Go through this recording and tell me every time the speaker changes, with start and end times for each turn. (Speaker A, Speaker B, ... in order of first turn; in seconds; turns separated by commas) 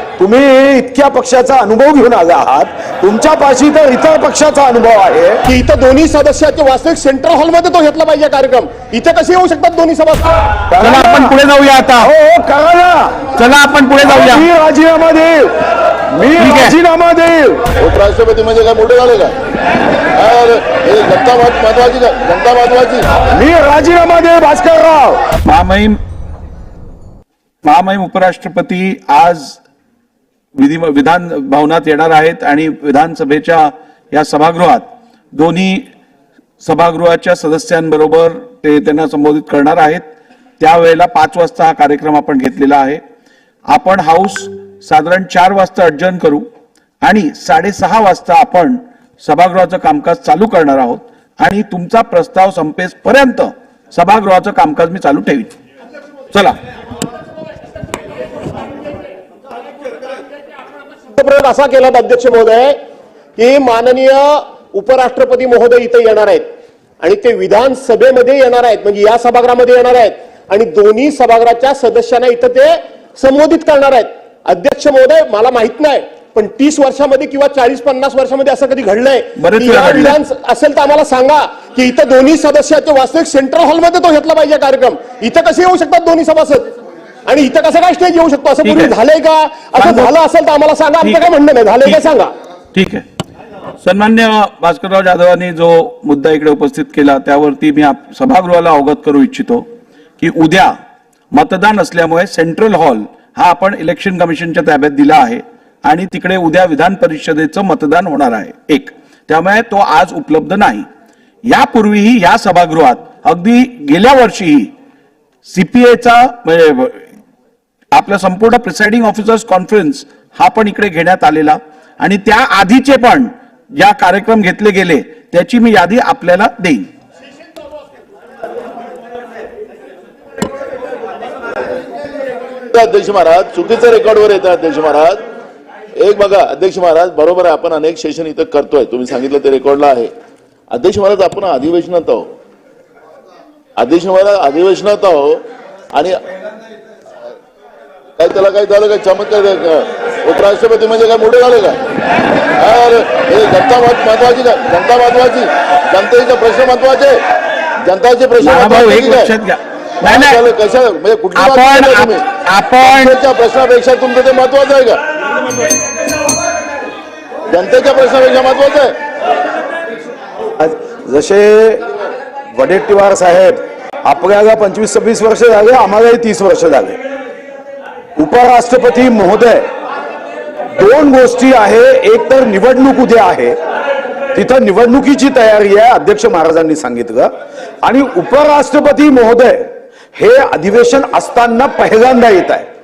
Speaker A: 0.2-5.4, Speaker B: 5.5-10.3, Speaker A: 10.7-11.4, Speaker C: 10.8-12.1, Speaker A: 12.0-13.2, Speaker C: 13.4-14.4, Speaker A: 14.0-15.5, Speaker A: 16.1-17.6, Speaker C: 16.4-16.7, Speaker D: 17.8-19.3, Speaker D: 20.1-23.1, Speaker A: 23.3-25.2, Speaker C: 25.4-26.0, Speaker C: 27.6-29.6, Speaker C: 30.6-35.9, Speaker C: 36.6-40.1, Speaker C: 40.6-43.0, Speaker C: 43.7-46.5, Speaker C: 47.0-55.5, Speaker B: 61.2-62.8, Speaker B: 63.4-66.5, Speaker B: 67.0-86.7, Speaker C: 79.4-80.1, Speaker B: 87.3-92.3, Speaker C: 92.7-93.0, Speaker C: 93.8-99.7, Speaker C: 100.2-100.8, Speaker C: 101.3-110.9, Speaker C: 111.4-114.7, Speaker C: 115.5-117.0, Speaker C: 117.9-126.9, Speaker D: 132.7-135.2, Speaker D: 136.0-140.1, Speaker D: 140.7-142.3, Speaker D: 143.8-145.4, Speaker D: 145.9-146.2, Speaker D: 148.2-151.8, Speaker D: 152.6-157.2, Speaker D: 157.8-159.3, Speaker C: 158.4-160.4, Speaker D: 160.0-162.3, Speaker C: 161.3-163.2, Speaker D: 162.8-165.0, Speaker D: 167.5-168.9, Speaker A: 170.6-171.8, Speaker A: 172.6-177.0, Speaker A: 178.2-179.7, Speaker A: 180.8-183.6, Speaker A: 184.3-187.3, Speaker A: 187.8-192.7